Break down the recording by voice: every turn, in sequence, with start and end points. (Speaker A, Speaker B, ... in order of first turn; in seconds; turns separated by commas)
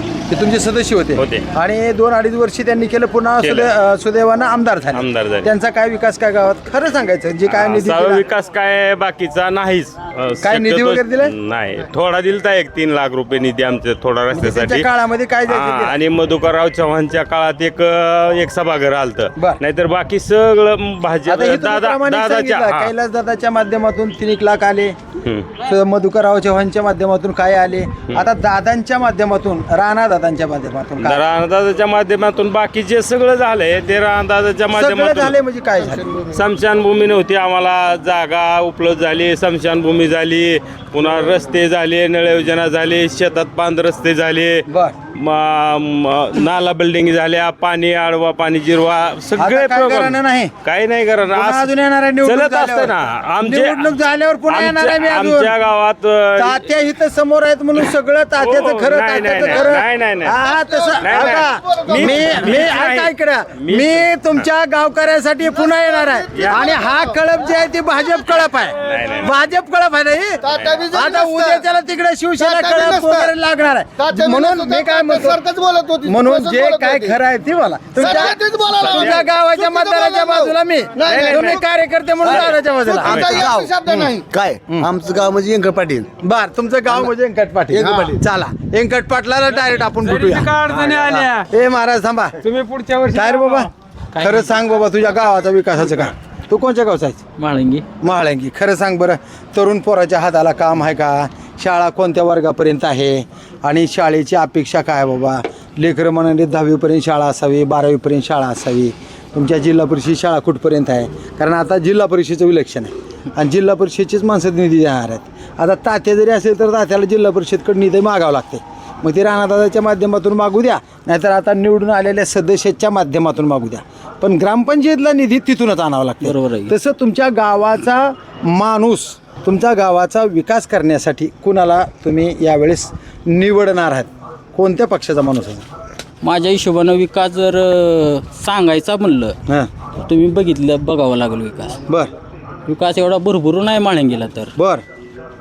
Speaker A: 0.3-8.2, Speaker B: 1.2-1.4, Speaker B: 3.4-3.7, Speaker B: 4.9-5.5, Speaker B: 7.5-14.9, Speaker A: 10.4-11.3, Speaker A: 14.3-15.9, Speaker B: 15.5-22.9, Speaker A: 19.4-19.6, Speaker A: 21.3-25.0, Speaker A: 25.6-31.2, Speaker B: 31.0-35.4, Speaker A: 34.7-36.2, Speaker C: 35.8-36.3, Speaker B: 36.3-54.0, Speaker A: 44.7-44.9, Speaker A: 49.4-50.5, Speaker A: 51.3-52.9, Speaker A: 53.4-55.5, Speaker B: 54.5-56.6, Speaker A: 56.4-75.4, Speaker B: 58.4-60.4, Speaker C: 60.5-62.7, Speaker B: 61.0-64.4, Speaker C: 65.7-67.1, Speaker B: 66.3-66.8, Speaker B: 68.8-69.3, Speaker C: 70.4-71.7, Speaker B: 70.5-70.8, Speaker C: 72.4-73.3, Speaker C: 74.0-77.2, Speaker A: 76.0-83.7, Speaker C: 77.9-81.6, Speaker C: 82.2-84.3, Speaker B: 83.0-83.4, Speaker D: 83.2-86.1, Speaker A: 86.2-92.4, Speaker C: 87.7-88.2, Speaker E: 89.9-91.5, Speaker E: 92.4-93.7, Speaker A: 93.1-97.2, Speaker F: 97.4-97.9, Speaker A: 98.0-135.6, Speaker F: 126.2-126.7, Speaker F: 136.2-139.4, Speaker F: 140.0-141.8, Speaker F: 142.7-144.5, Speaker A: 144.6-144.8